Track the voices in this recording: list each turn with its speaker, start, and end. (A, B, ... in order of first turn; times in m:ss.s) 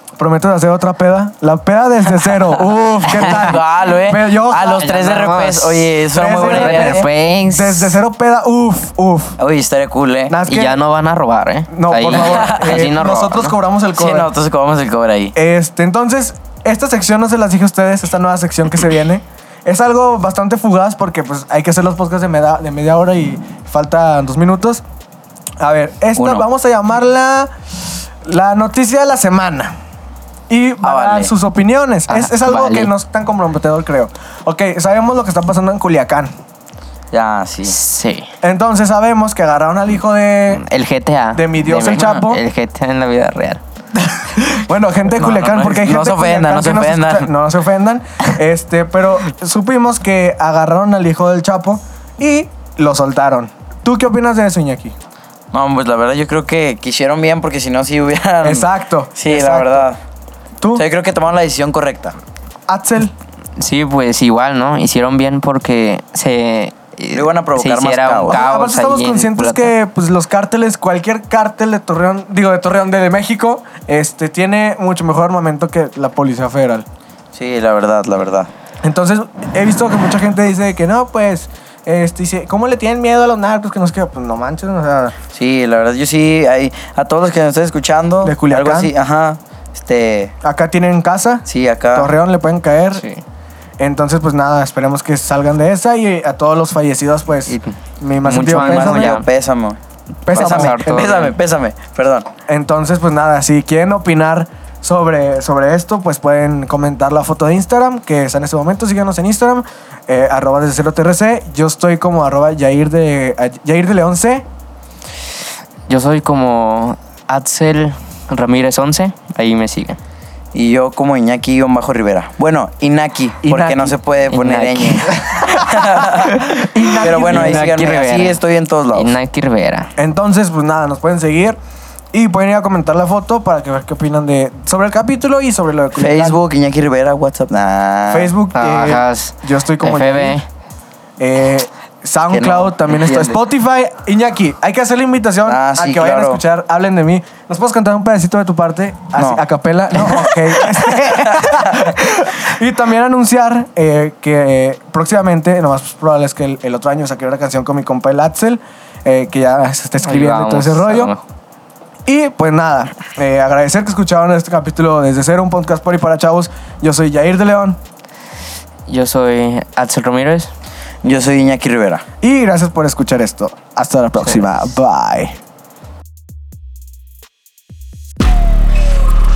0:00.2-0:04.8 A
0:03.1-0:03.5 B
0:03.1-0:07.1 C
0:04.5-0:08.0 B
0:06.1-0:09.4 A
0:09.4-0:10.4 C
0:10.3-0:10.8 A
0:10.5-0:13.5 B
0:11.7-0:14.3 A
0:12.1-0:12.9 C
0:13.9-0:15.3 C
0:15.3-0:24.8 A
0:25.6-0:27.5 A
0:26.2-0:26.4 C
0:28.2-0:29.8 A
0:30.5-0:36.3 A
0:30.8-0:31.3 C
0:32.1-0:32.9 B
0:37.1-0:37.8 C
0:37.7-0:38.3 B
0:38.4-0:40.6 A
0:40.5-0:43.6 B
0:41.3-0:42.4 A
0:44.0-0:55.0 A
0:45.2-0:45.8 B
0:45.5-0:47.3 C
0:55.5-1:00.0 C
0:58.4-0:59.9 A
1:00.7-1:02.2 C
1:02.7-1:03.1 A
1:03.6-1:09.7 B
1:07.1-1:08.4 C
1:08.3-1:16.8 A
1:17.3-1:18.5 C
1:18.8-1:25.1 A
1:25.3-1:30.3 C
1:28.2-1:28.9 A
1:30.4-1:33.0 A
1:31.5-1:32.1 C
1:32.9-1:33.2 B
1:33.8-1:39.2 A
1:37.4-1:39.2 B
1:38.4-1:39.8 C
1:40.2-1:41.1 A
1:40.3-1:41.4 B
1:40.3-1:42.3 C
1:42.5-1:54.5 A
1:55.9-2:00.0 B
2:00.5-2:06.5 C
2:03.4-2:03.9 A
2:04.3-2:05.6 B
2:05.2-2:07.8 A
2:07.0-2:09.1 C
2:07.1-2:08.4 B
2:08.9-2:09.9 B
2:10.0-2:11.6 A
2:12.1-2:16.4 A
2:16.0-2:18.3 C
2:18.1-2:20.4 A
2:18.5-2:20.4 B
2:21.2-2:41.1 A
2:22.3-2:22.7 C
2:22.8-2:23.4 B
2:25.4-2:26.4 C
2:29.1-2:29.4 C
2:29.9-2:31.7 C
2:40.0-2:41.2 B
2:42.0-2:47.8 A
2:48.9-2:50.5 B
2:51.0-2:52.0 C
2:52.2-2:55.4 A